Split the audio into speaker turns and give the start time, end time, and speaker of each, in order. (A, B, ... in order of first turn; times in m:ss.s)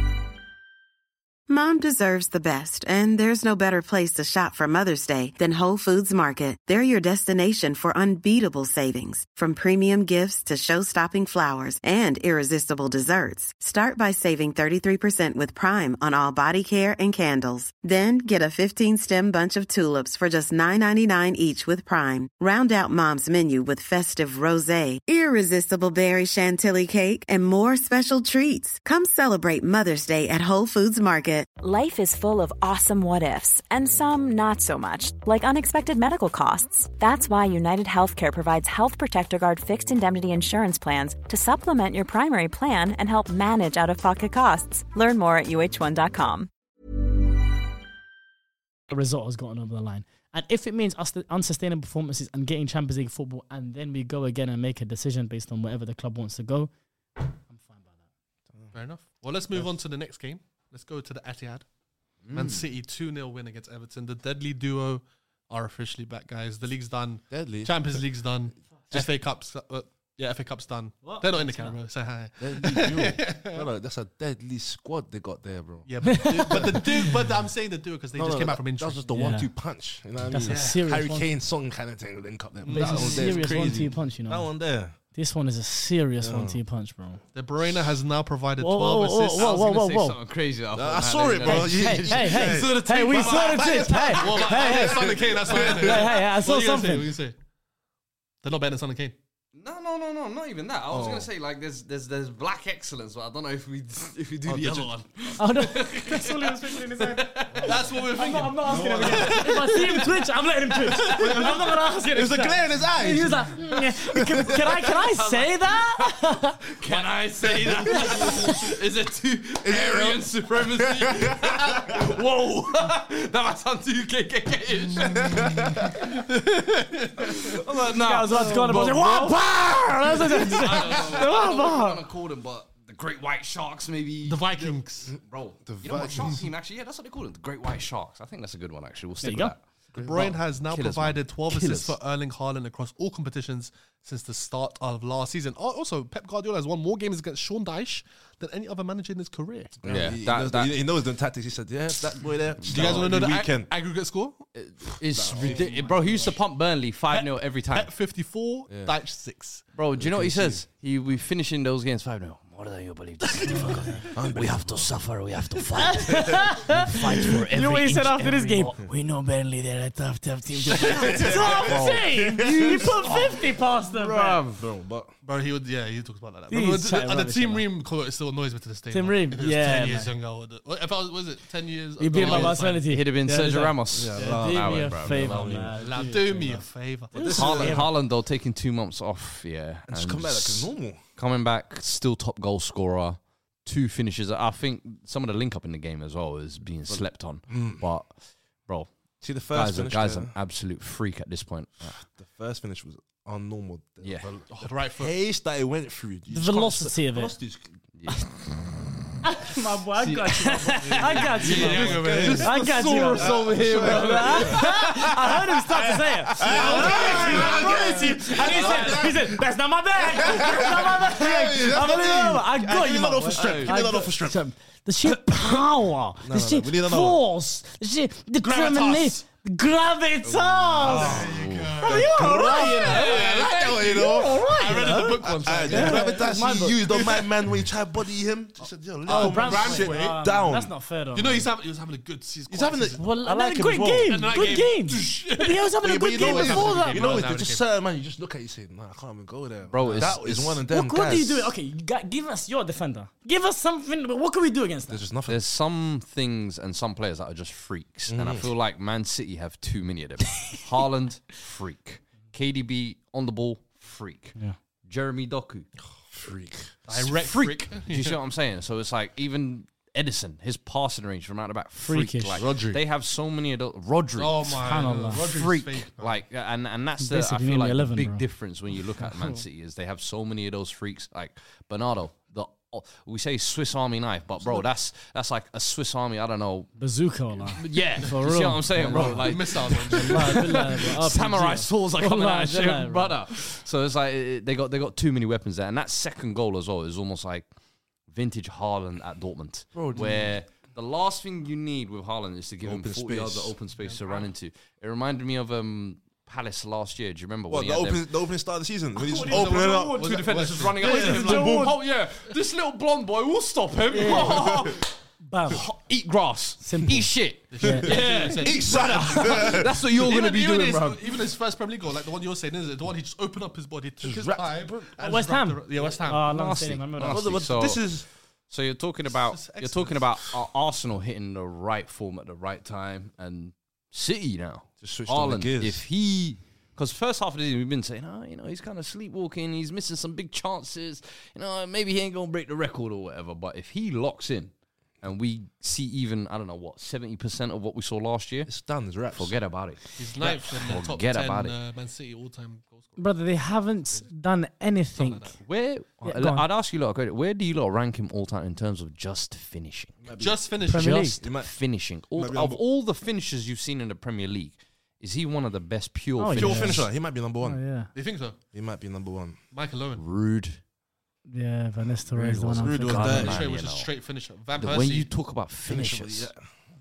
0:01.5-0:31.5 A
0:31.6-0:46.5 B
0:48.9-0:58.0 C
0:58.7-1:01.6 D
1:02.2-1:02.6 E
1:02.3-1:13.6 D
1:07.3-1:07.7 F
1:11.0-1:11.8 C
1:12.4-1:17.0 F
1:15.8-1:19.1 D
1:16.0-1:17.1 C
1:18.1-1:24.9 F
1:19.1-1:19.5 C
1:20.3-1:21.3 C
1:20.4-1:21.0 D
1:22.6-1:23.8 D
1:22.7-1:27.2 C
1:26.2-1:26.6 F
1:27.3-1:29.9 D
1:28.6-1:30.2 C
1:29.4-1:34.5 E
1:30.7-1:36.0 F
1:31.4-1:35.1 C
1:34.2-1:37.4 D
1:35.6-1:37.1 C
1:38.4-1:39.2 D
1:39.5-1:49.3 E
1:40.9-1:41.3 F
1:44.5-1:45.0 D
1:45.4-1:56.6 C
1:47.6-1:49.8 D
1:49.0-1:49.2 F
1:51.0-1:54.6 F
1:54.9-1:55.8 E
1:56.7-2:06.1 E
1:57.9-1:58.5 F
1:59.6-2:02.1 F
2:05.0-2:07.6 D
2:05.2-2:05.8 F
2:07.2-2:21.9 E
2:08.0-2:12.0 C
2:08.3-2:09.0 F
2:14.2-2:15.1 D
2:15.1-2:16.4 F
2:16.1-2:16.4 D
2:19.2-2:19.5 C
2:19.9-2:29.8 D
2:29.8-2:33.7 F
2:29.8-2:30.7 E
2:32.0-2:33.1 E
2:32.6-2:34.4 D
2:34.5-2:37.9 E
2:35.1-2:36.1 F
2:37.1-2:39.6 D
2:39.7-2:48.8 E
2:40.0-2:40.6 F
2:43.5-2:44.0 C
2:44.0-2:44.9 F
2:45.8-2:54.4 C
2:50.8-2:53.2 F
2:50.9-2:51.8 D
2:53.9-2:55.1 F
2:54.0-2:54.6 E
2:55.2-3:02.9 D
2:56.5-2:57.7 C
2:58.9-3:00.1 C
3:02.0-3:07.9 C
3:02.2-3:05.7 E
3:03.9-3:05.8 F
3:05.7-3:07.4 D
3:07.1-3:07.8 F
3:07.2-3:18.9 E
3:09.9-3:11.0 F
3:16.9-3:17.8 F
3:19.2-3:20.3 F
3:19.4-3:22.0 E
3:21.9-3:27.8 F
3:24.0-3:24.3 E
3:24.5-3:25.1 D
3:26.3-3:27.3 C
3:27.9-3:28.4 E
3:29.2-3:51.3 C
3:30.0-3:35.3 E
3:30.8-3:32.5 D
3:31.5-3:32.6 F
3:33.1-3:35.0 F
3:35.7-3:39.4 F
3:36.4-3:37.7 E
3:36.6-3:37.9 D
3:38.4-3:39.0 E
3:40.0-3:44.4 F
3:43.3-3:43.8 E
3:46.2-3:47.2 F
3:48.4-3:49.2 D
3:50.2-3:52.0 E
3:50.8-3:51.4 F
3:50.9-3:56.3 D
3:51.8-3:53.2 C
3:51.9-4:00.7 F
3:52.8-3:53.5 E
3:54.0-3:56.8 C
3:59.0-4:00.2 D
3:59.1-4:01.5 C
4:01.1-4:03.1 D
4:02.5-4:04.2 F
4:03.0-4:07.2 C
4:04.0-4:07.6 D
4:05.8-4:11.5 F
4:09.7-4:10.6 E
4:10.6-4:15.0 C
4:14.9-4:15.4 F
4:15.3-4:25.7 E
4:18.1-4:18.5 F
4:26.1-4:26.8 F
4:26.9-4:28.2 D
4:26.9-4:46.7 E
4:31.8-4:32.4 C
4:32.4-4:32.8 F
4:34.2-4:36.2 D
4:34.6-4:35.3 C
4:37.0-4:38.2 C
4:39.1-4:39.4 C
4:46.8-4:53.2 C
4:47.4-4:57.5 E
4:48.8-4:50.7 D
4:58.1-5:08.0 E
4:59.7-5:00.3 F
5:02.6-5:03.6 F
5:03.8-5:04.2 D
5:07.5-5:10.1 F
5:09.1-5:14.9 E
5:09.1-5:11.3 D
5:10.8-5:11.8 F
5:10.8-5:11.8 C
5:13.9-5:15.6 C
5:15.5-5:21.1 E
5:16.6-5:18.0 C
5:17.5-5:26.3 D
5:17.8-5:19.8 F
5:24.0-5:24.9 F
5:25.0-5:27.2 C
5:26.2-5:51.6 E
5:27.0-5:28.0 F
5:29.1-5:30.1 D
5:34.8-5:35.8 F
5:48.5-5:49.4 F
5:50.0-5:53.1 D
5:53.0-5:55.4 C
5:54.9-5:55.4 D
5:55.4-6:00.0 E
5:56.0-5:56.4 C
6:00.0-6:01.5 F
6:00.2-6:01.1 D
6:00.6-6:01.2 C
6:00.8-6:06.9 E
6:02.1-6:02.6 F
6:06.2-6:07.9 C
6:06.3-6:07.6 F
6:07.9-6:08.4 D
6:08.5-6:09.4 F
6:09.5-6:10.0 D
6:10.0-6:10.6 E
6:11.3-6:13.3 C
6:12.1-6:13.9 E
6:12.6-6:13.4 F
6:12.9-6:15.1 D
6:14.5-6:16.3 E
6:15.6-6:16.4 F